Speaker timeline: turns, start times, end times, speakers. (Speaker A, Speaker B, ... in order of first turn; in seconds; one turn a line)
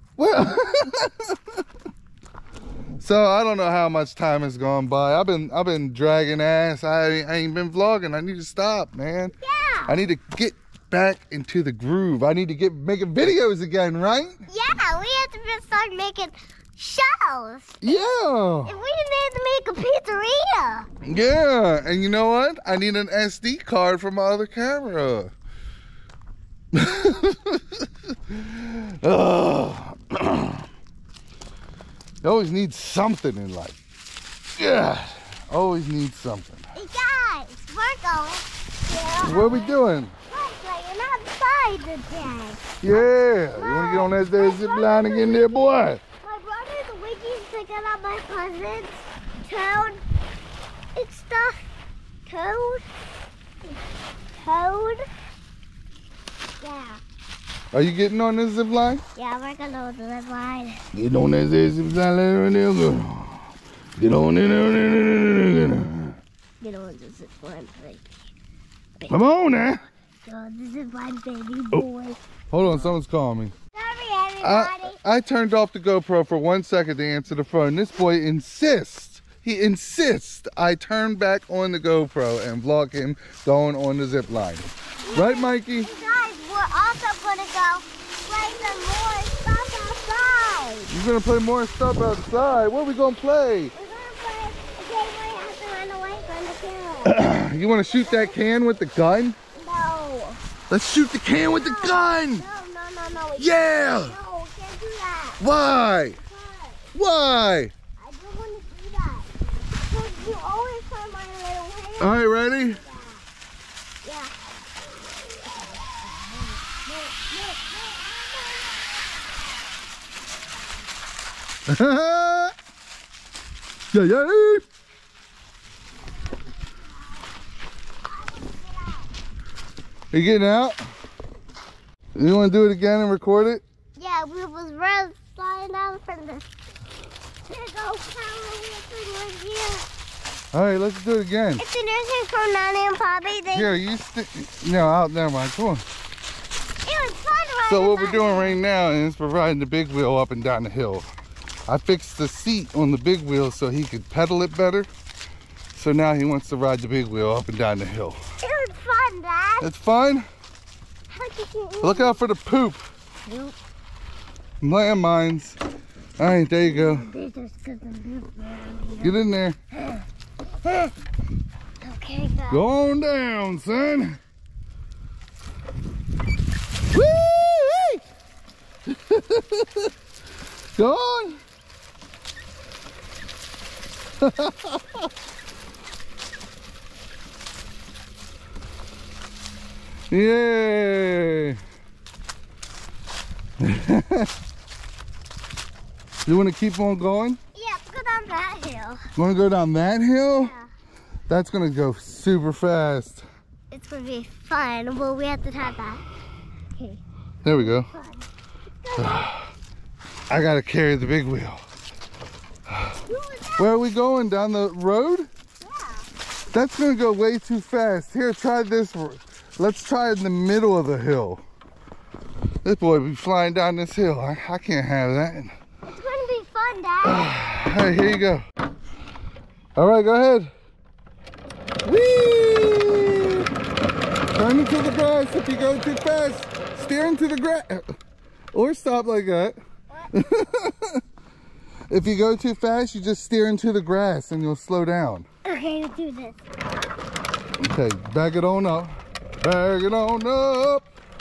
Speaker A: 0.2-1.3
Speaker A: 3.0-9.3
Speaker B: 9.4-10.0
Speaker A: 9.9-14.4
Speaker B: 14.5-17.8
Speaker A: 17.8-18.7
Speaker B: 18.6-20.9
Speaker A: 21.1-25.3
Speaker A: 26.7-27.6
Speaker A: 28.3-30.6
Speaker A: 32.2-33.8
Speaker A: 34.6-36.7
Speaker B: 36.7-39.8
Speaker A: 39.2-40.1
Speaker B: 40.3-45.5
Speaker A: 42.8-46.0
Speaker B: 46.2-50.0
Speaker B: 50.9-51.6
Speaker B: 52.2-52.9
Speaker B: 54.4-55.0
Speaker B: 56.6-57.0
Speaker A: 57.7-59.0
Speaker B: 59.1-60.8
Speaker A: 60.9-63.5
Speaker A: 64.0-66.2
Speaker B: 66.6-68.0
Speaker B: 69.0-69.2
Speaker A: 69.1-69.8
Speaker B: 70.2-73.0
Speaker A: 72.5-73.5
Speaker B: 73.7-75.0
Speaker A: 74.4-85.9
Speaker B: 85.0-90.9
Speaker A: 90.9-93.7
Speaker B: 93.7-97.2
Speaker A: 97.0-99.4
Speaker B: 97.9-98.4
Speaker B: 99.5-100.4
Speaker A: 100.7-102.4
Speaker B: 101.4-105.4
Speaker A: 103.4-104.2
Speaker A: 105.4-106.2
Speaker B: 106.2-106.8
Speaker A: 106.9-107.7
Speaker B: 108.0-109.3
Speaker B: 109.8-113.2
Speaker A: 112.0-112.8
Speaker B: 114.0-114.3
Speaker B: 117.0-119.4
Speaker A: 121.7-122.5
Speaker A: 123.9-124.6
Speaker B: 128.1-129.1
Speaker A: 130.1-130.8
Speaker A: 132.1-133.6
Speaker B: 133.9-136.4
Speaker B: 137.5-139.8
Speaker A: 140.5-141.6
Speaker B: 141.6-143.7
Speaker A: 143.5-145.8
Speaker B: 146.8-148.6
Speaker A: 147.7-151.1
Speaker A: 151.7-154.9
Speaker A: 155.7-158.2
Speaker B: 158.4-159.7
Speaker A: 159.6-160.2
Speaker B: 161.1-162.2
Speaker A: 161.8-162.8
Speaker B: 163.3-163.5
Speaker A: 164.6-165.6
Speaker A: 166.2-167.1
Speaker B: 166.6-169.2
Speaker A: 169.0-169.6
Speaker B: 171.8-172.7
Speaker A: 172.5-174.2
Speaker A: 176.9-178.0
Speaker A: 178.9-179.9
Speaker A: 180.8-181.4
Speaker A: 184.2-184.8
Speaker A: 190.1-191.6
Speaker A: 193.6-194.3
Speaker A: 196.2-197.4
Speaker B: 197.5-199.0
Speaker A: 199.2-200.5
Speaker B: 200.3-200.7
Speaker A: 201.3-203.2
Speaker B: 203.7-206.0
Speaker B: 206.8-207.0
Speaker A: 207.4-207.9
Speaker B: 207.5-208.2
Speaker B: 208.8-209.3
Speaker A: 208.9-209.4
Speaker A: 210.3-211.6
Speaker B: 213.1-213.7
Speaker A: 213.6-215.3
Speaker B: 215.6-216.1
Speaker A: 216.5-221.4
Speaker A: 222.6-225.5
Speaker B: 225.9-227.3
Speaker A: 227.0-228.4
Speaker A: 229.8-230.5
Speaker A: 231.8-233.5
Speaker A: 234.3-237.8
Speaker A: 238.5-239.6
Speaker B: 239.9-240.3
Speaker A: 240.1-241.0
Speaker A: 241.9-245.2
Speaker B: 245.4-246.4
Speaker A: 247.6-250.8